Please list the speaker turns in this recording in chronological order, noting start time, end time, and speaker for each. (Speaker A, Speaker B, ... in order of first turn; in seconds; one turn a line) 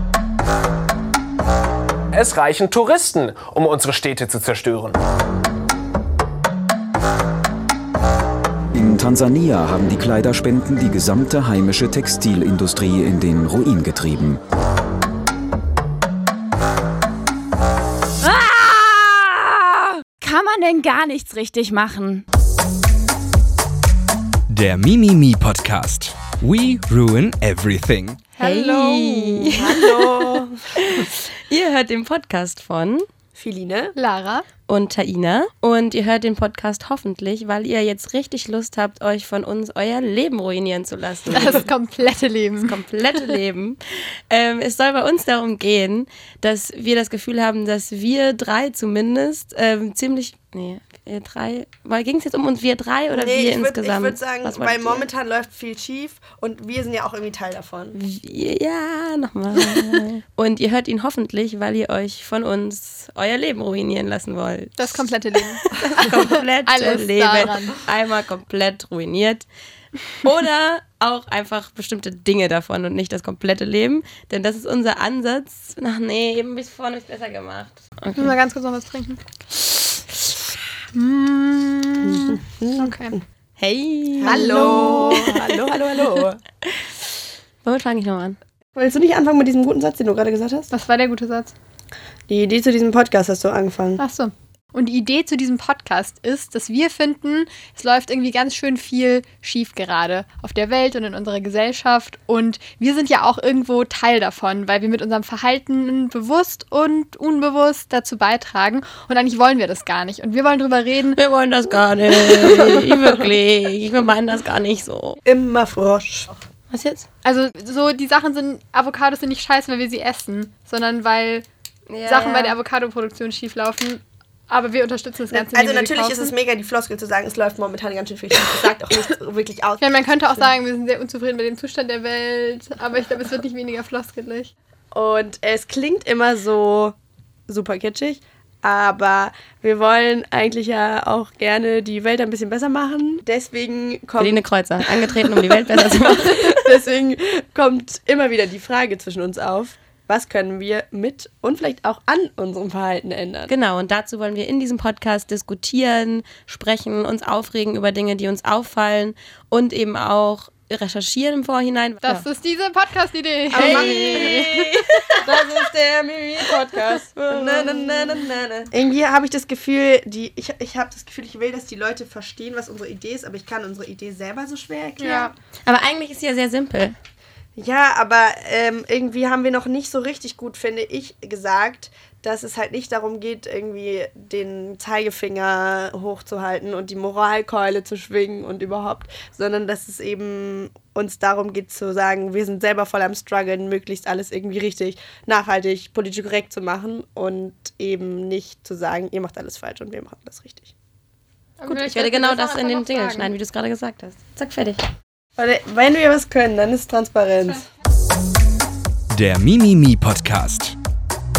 Speaker A: 2.1-5.0
Speaker B: 8.7-14.4
Speaker C: 18.2-22.2
Speaker D: 24.5-28.2
Speaker E: 28.4-29.6
Speaker F: 28.4-33.0
Speaker G: 29.6-30.6
Speaker G: 33.3-34.0
Speaker E: 34.0-34.5
Speaker F: 34.7-41.7
Speaker E: 41.3-42.8
Speaker F: 42.6-43.8
Speaker F: 44.3-55.1
Speaker G: 53.1-58.0
Speaker F: 57.9-65.0
Speaker E: 64.8-67.8
Speaker F: 65.8-69.5
Speaker F: 70.2-78.3
Speaker E: 78.2-79.2
Speaker E: 80.9-83.2
Speaker G: 82.0-83.1
Speaker F: 83.6-85.5
Speaker E: 84.2-85.3
Speaker G: 84.2-86.4
Speaker F: 87.6-88.4
Speaker G: 88.8-90.7
Speaker E: 90.7-91.5
Speaker G: 92.3-94.0
Speaker E: 94.0-111.2
Speaker F: 111.1-115.2
Speaker G: 115.2-116.3
Speaker F: 116.7-117.1
Speaker E: 117.2-121.5
Speaker F: 121.9-122.6
Speaker E: 122.0-126.3
Speaker G: 125.3-130.5
Speaker E: 129.8-134.5
Speaker G: 134.9-136.9
Speaker G: 137.5-153.5
Speaker F: 144.2-146.6
Speaker F: 153.5-162.2
Speaker E: 162.0-164.8
Speaker F: 163.5-165.4
Speaker G: 163.5-164.5
Speaker G: 165.2-175.3
Speaker F: 166.4-168.3
Speaker E: 175.0-175.3
Speaker F: 175.7-176.9
Speaker G: 177.6-200.7
Speaker E: 201.6-203.3
Speaker F: 201.7-204.8
Speaker G: 205.4-207.6
Speaker D: 209.1-210.8